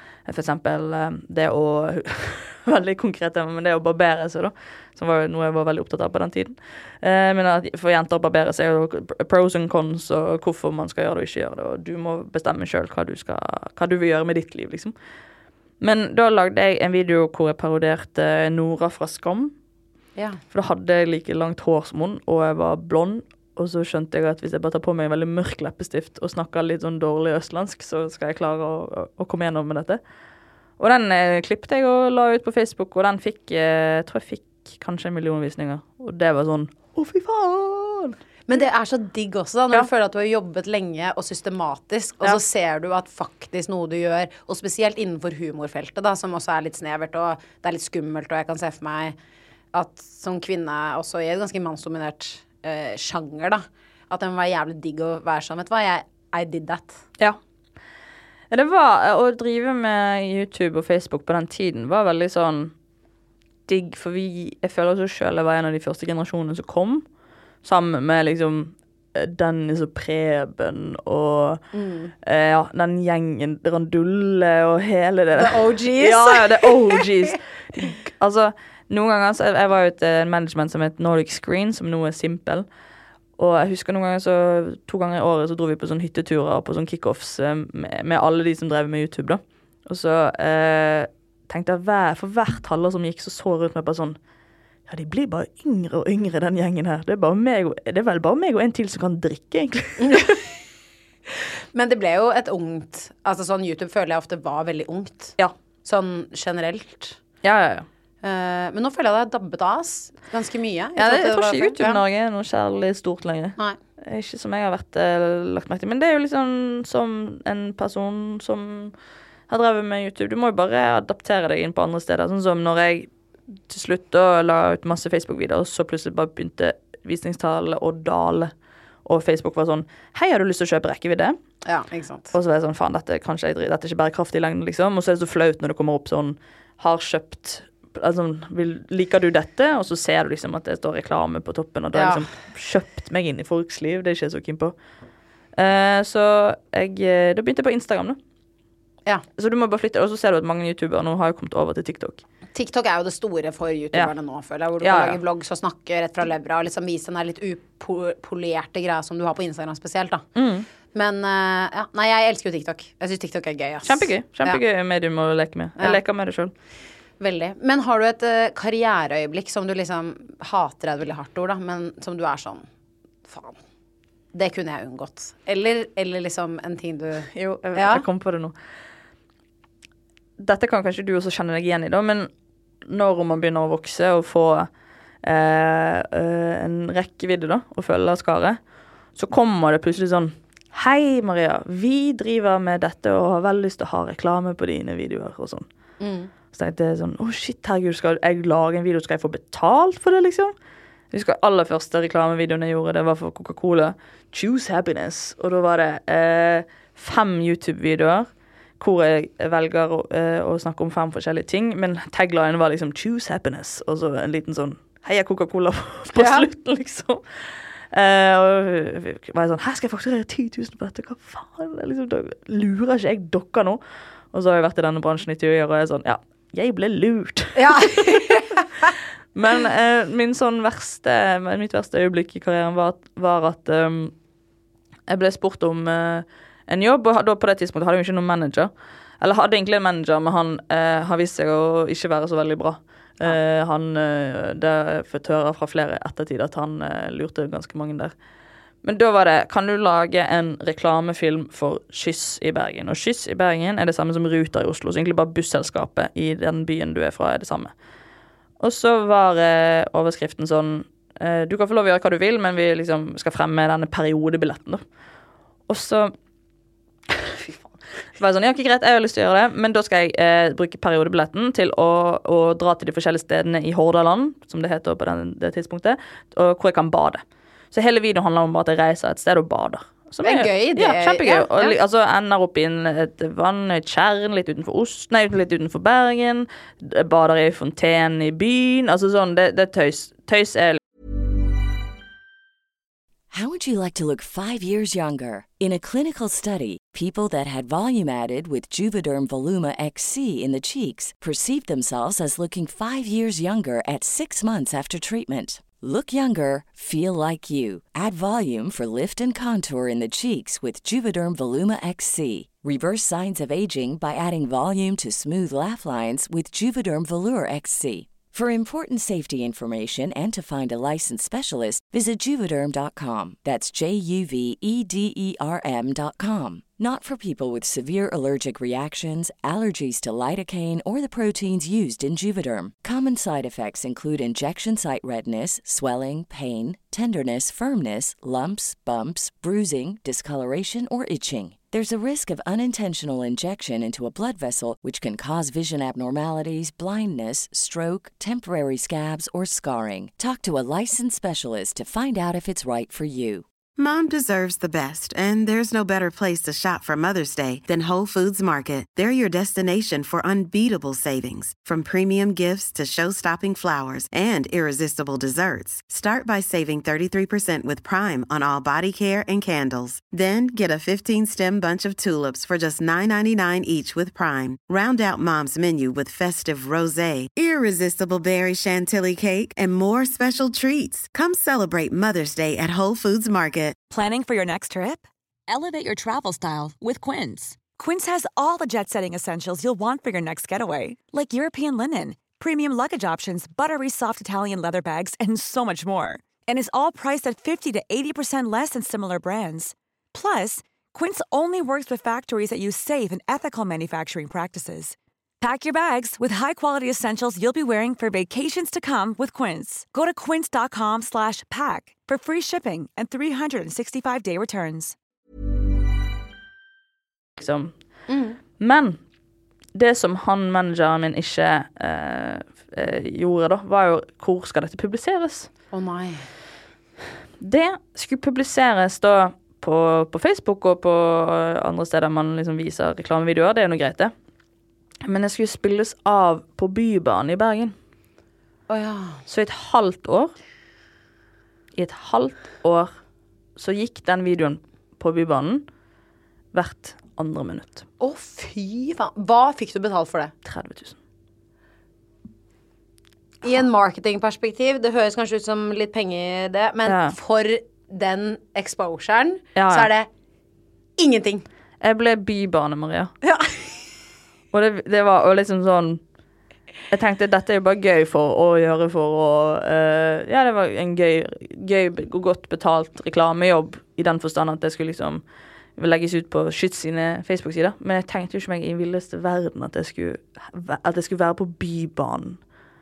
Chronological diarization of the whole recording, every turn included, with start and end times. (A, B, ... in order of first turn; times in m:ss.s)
0:00.2-0:14.9 A
0:15.8-0:19.5 A
0:20.1-0:20.4 B
0:20.5-0:30.0 A
0:30.8-0:38.2 A
0:38.5-0:49.1 B
0:49.7-0:57.0 B
0:58.5-1:02.7 A
1:03.7-1:07.0 A
1:07.6-1:11.6 A
1:11.7-1:12.1 B
1:12.2-1:22.6 A
1:15.4-1:17.0 B
1:23.4-1:34.2 A
1:34.9-1:40.3 A
1:40.1-1:40.4 B
1:41.7-1:47.2 B
1:47.4-1:47.8 A
1:48.2-1:52.0 B
1:51.0-1:58.9 A
1:59.5-2:03.1 A
2:03.7-2:08.5 A
2:09.0-2:11.4 A
2:11.6-2:12.3 B
2:12.3-2:24.7 A
2:21.9-2:22.2 B
2:25.6-2:28.2 A
2:29.4-2:32.2 A
2:32.5-2:40.2 B
2:34.8-2:35.2 A
2:40.4-2:40.6 A
2:40.9-2:44.6 B
2:43.8-2:46.5 A
2:47.2-2:52.6 B
2:53.2-2:53.6 B
2:54.3-2:58.0 B
2:57.3-2:58.5 A
3:00.4-3:02.3 A
3:02.8-3:04.7 A
3:05.2-3:08.6 A
3:09.1-3:15.7 A
3:16.0-3:16.3 B
3:16.5-3:20.5 A
3:21.1-3:37.2 A
3:36.1-3:36.5 B
3:37.9-3:43.8 A
3:44.3-3:48.4 A
3:47.6-3:48.6 B
3:49.3-3:54.1 A
3:55.1-4:08.1 A
4:08.8-4:17.7 A
4:18.6-4:24.8 A
4:25.7-4:26.1 A
4:28.2-4:50.8 A
4:40.2-4:41.8 B
4:53.3-5:53.4 C
5:53.8-6:23.8 D
6:23.9-6:55.0 E
6:57.4-6:57.7 A
6:58.1-6:58.4 B
6:58.6-6:59.0 A
6:59.7-7:05.5 A
7:05.7-7:06.3 B
7:07.4-7:14.1 A
7:15.0-7:17.7 A
7:18.7-7:19.2 B
7:19.3-7:20.3 A
7:21.7-7:22.9 A
7:23.6-7:25.6 A
7:26.5-7:27.8 A
7:28.0-7:30.3 B
7:30.4-7:31.0 A
7:33.4-7:40.1 B
7:36.8-7:37.2 A
7:39.6-7:39.9 A
7:41.0-7:41.4 B
7:41.8-7:43.1 A
7:43.2-7:43.6 B
7:44.5-7:46.0 A
7:46.9-7:55.2 A
7:55.8-8:02.4 A